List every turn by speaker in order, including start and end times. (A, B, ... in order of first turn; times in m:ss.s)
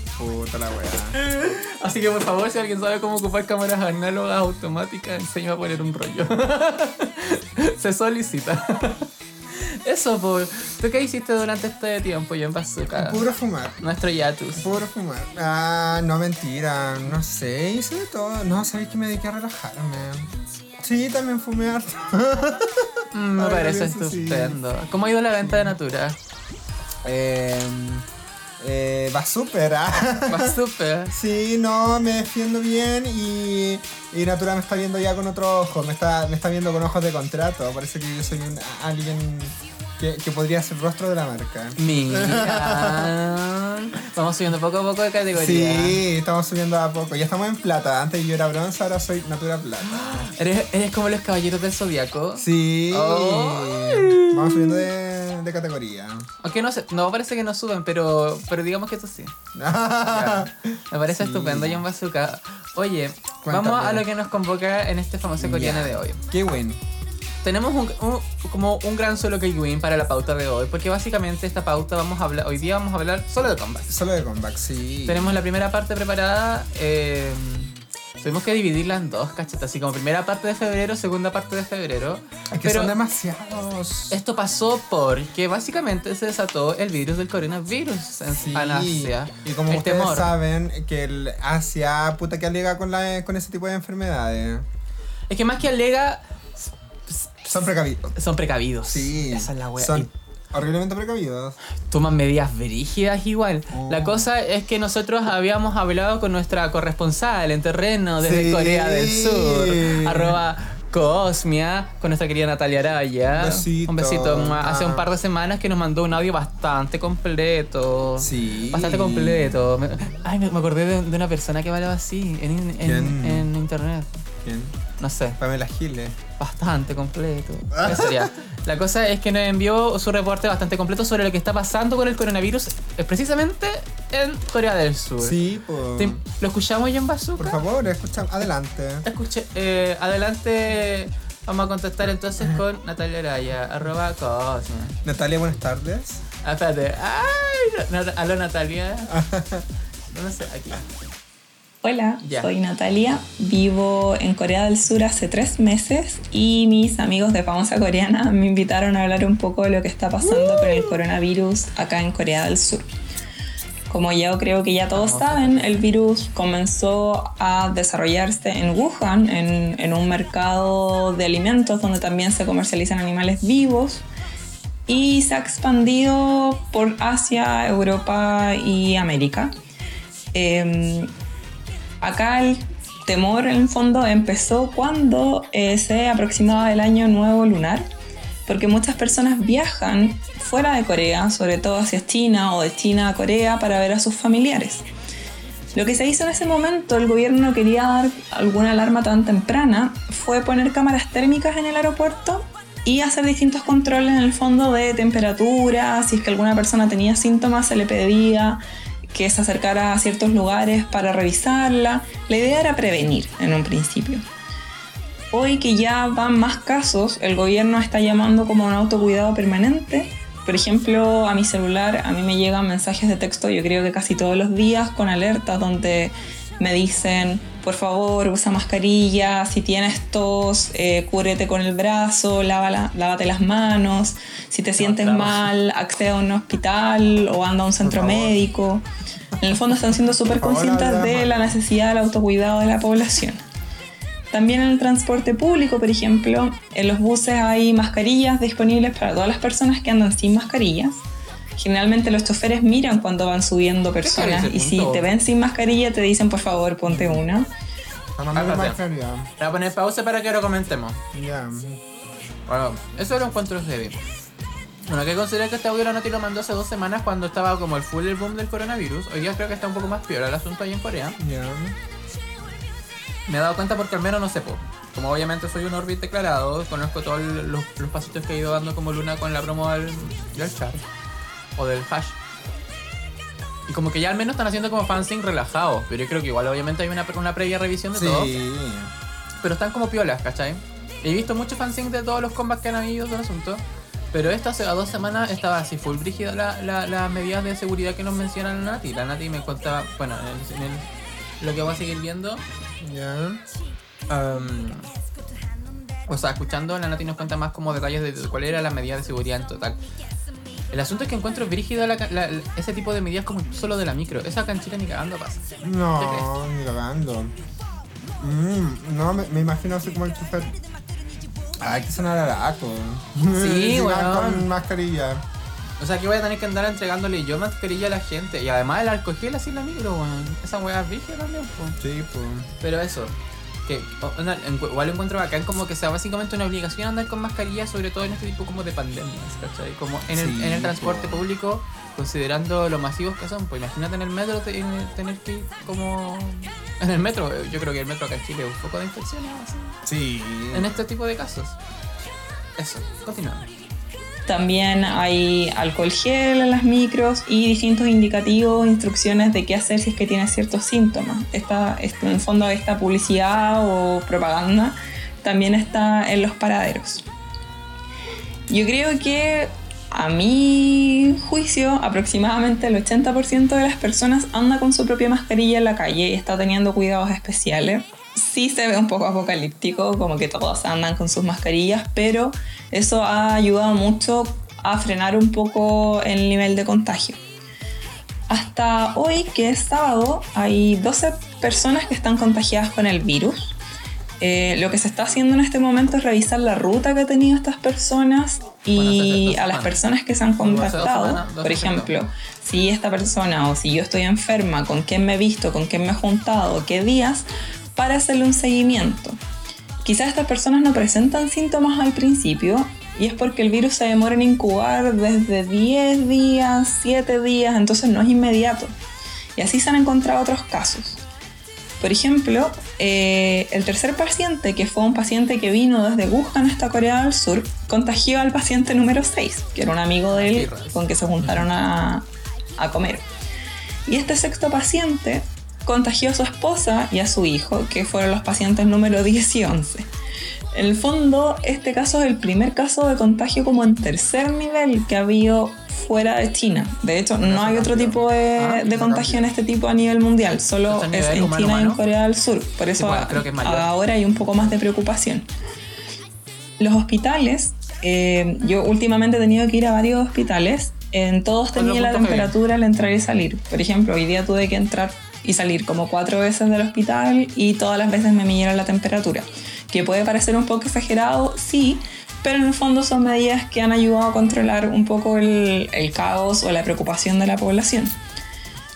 0:00.2-0:01.2 A
0:01.1-0:13.3 B
0:12.9-0:13.8 A
0:13.8-0:14.7 B
0:14.5-0:24.6 A
0:23.1-0:26.2 B
0:25.4-0:25.8 A
0:27.0-0:28.0 A
0:28.6-0:30.6 A
0:30.3-0:31.1 B
0:31.1-0:43.1 A
0:41.8-0:46.0 B
0:45.3-0:50.3 A
0:49.9-0:54.9 B
0:52.4-0:56.3 A
0:56.4-0:59.3 B
0:59.5-1:01.8 A
1:00.1-1:06.2 B
1:03.4-1:04.0 A
1:05.4-1:06.8 A
1:07.4-1:13.9 B
1:13.9-1:15.3 A
1:15.0-1:22.9 B
1:22.5-1:24.2 A
1:24.1-1:30.3 B
1:28.3-1:34.6 A
1:35.3-1:40.1 B
1:37.5-1:38.1 A
1:38.8-1:41.6 A
1:41.9-2:04.1 B
1:43.7-1:44.3 A
1:48.2-1:50.4 A
1:53.3-1:55.1 A
1:58.2-1:59.7 A
2:02.8-2:03.5 A
2:04.4-2:04.8 A
2:05.0-2:05.4 B
2:05.4-2:06.2 A
2:06.4-2:15.4 B
2:07.7-2:08.3 A
2:15.2-2:16.2 A
2:16.0-2:17.6 B
2:17.4-2:19.0 A
2:19.0-2:25.0 B
2:25.0-2:26.2 A
2:26.4-2:29.1 B
2:29.1-2:29.6 A
2:30.1-2:30.8 B
2:31.8-2:42.9 C
2:32.2-2:32.5 B
2:40.4-2:40.8 A
2:43.9-2:54.0 C
2:44.9-2:45.8 B
2:54.9-2:59.5 C
3:00.3-3:01.1 C
3:02.0-3:07.9 C
3:08.4-3:14.8 C
3:15.7-3:28.6 C
3:29.1-3:34.2 C
3:35.3-3:58.8 C
3:54.9-3:55.3 B
3:57.8-3:58.4 A
3:59.4-4:03.4 C
4:00.2-4:01.6 A
4:04.3-4:11.0 C
4:11.6-4:17.5 C
4:14.0-4:15.1 B
4:16.9-4:17.2 A
4:18.2-4:19.3 A
4:18.3-4:18.8 B
4:19.4-4:21.0 B
4:21.1-4:21.8 A
4:22.5-4:24.0 B
4:24.9-4:31.2 B
4:31.2-4:31.8 A
4:33.3-4:40.8 B
4:41.6-4:42.2 B
4:43.7-4:48.3 B
4:47.9-4:48.9 A
4:49.4-5:00.8 B
5:01.4-5:02.4 B
5:02.8-5:03.4 A
5:04.1-5:04.9 B
5:06.1-5:09.8 B
5:10.7-5:15.4 B
5:15.6-5:17.3 A
5:16.0-5:16.3 B
5:18.2-5:20.6 A
5:21.6-5:25.2 A
5:23.3-5:24.5 B
5:25.8-5:31.8 B
5:31.8-5:32.5 A
5:32.6-5:49.8 B
5:40.1-5:41.2 A
5:49.8-5:50.8 A
5:50.5-5:51.6 B
5:52.6-5:53.5 B
5:54.3-6:07.0 C
6:08.5-6:27.2 C
6:28.3-6:33.6 C
6:34.2-6:49.2 C
6:38.8-6:39.8 B
6:40.4-6:41.9 B
6:49.8-6:58.8 C
6:59.4-7:01.0 C
7:01.8-7:13.0 C
7:10.1-7:10.8 B
7:13.8-7:19.9 C
7:20.5-7:35.3 C
7:27.2-7:28.0 A
7:28.4-7:28.7 B
7:28.6-7:29.3 A
7:30.7-7:31.8 B
7:32.8-7:33.7 B
7:36.6-7:58.0 C
7:41.5-7:42.4 B